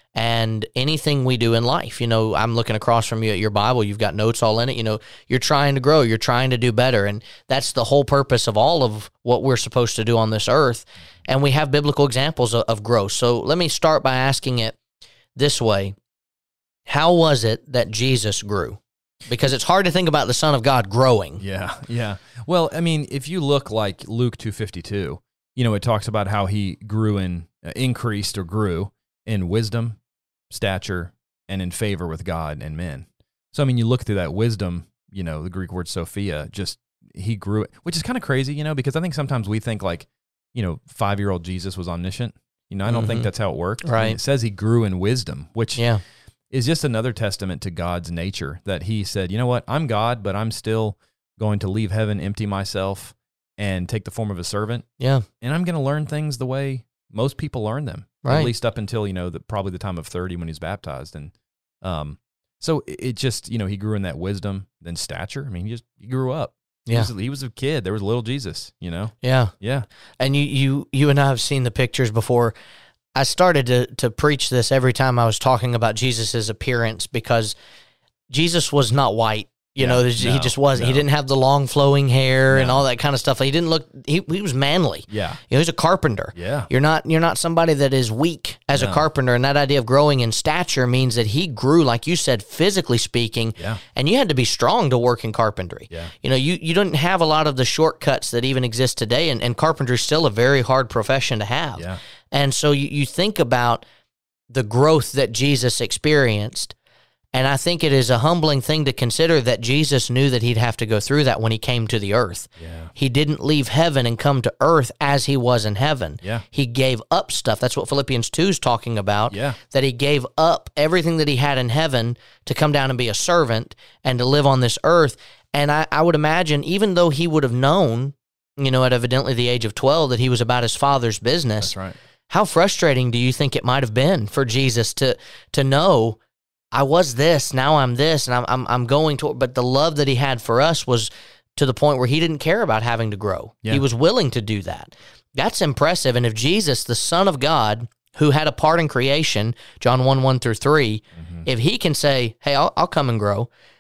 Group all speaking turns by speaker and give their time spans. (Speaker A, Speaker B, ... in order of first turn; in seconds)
Speaker A: 0.1-14.8, 15.4-16.0, 16.9-21.4, 42.9-43.3, 43.8-44.2, 45.8-46.0, 55.0-55.3, 58.2-58.5, 69.2-69.5, 70.2-72.5, 73.2-77.5, 78.3-103.8, 104.5-106.7, 107.3-131.7, 132.3-136.2, 136.7-153.5
Speaker B: 21.4-30.0, 30.5-45.8, 46.5-54.9, 55.4-69.9, 79.8-81.1, 82.5-82.8, 85.1-85.4, 86.3-86.7, 88.7-89.1, 112.6-112.9, 119.3-119.6, 131.6-132.0, 151.2-151.5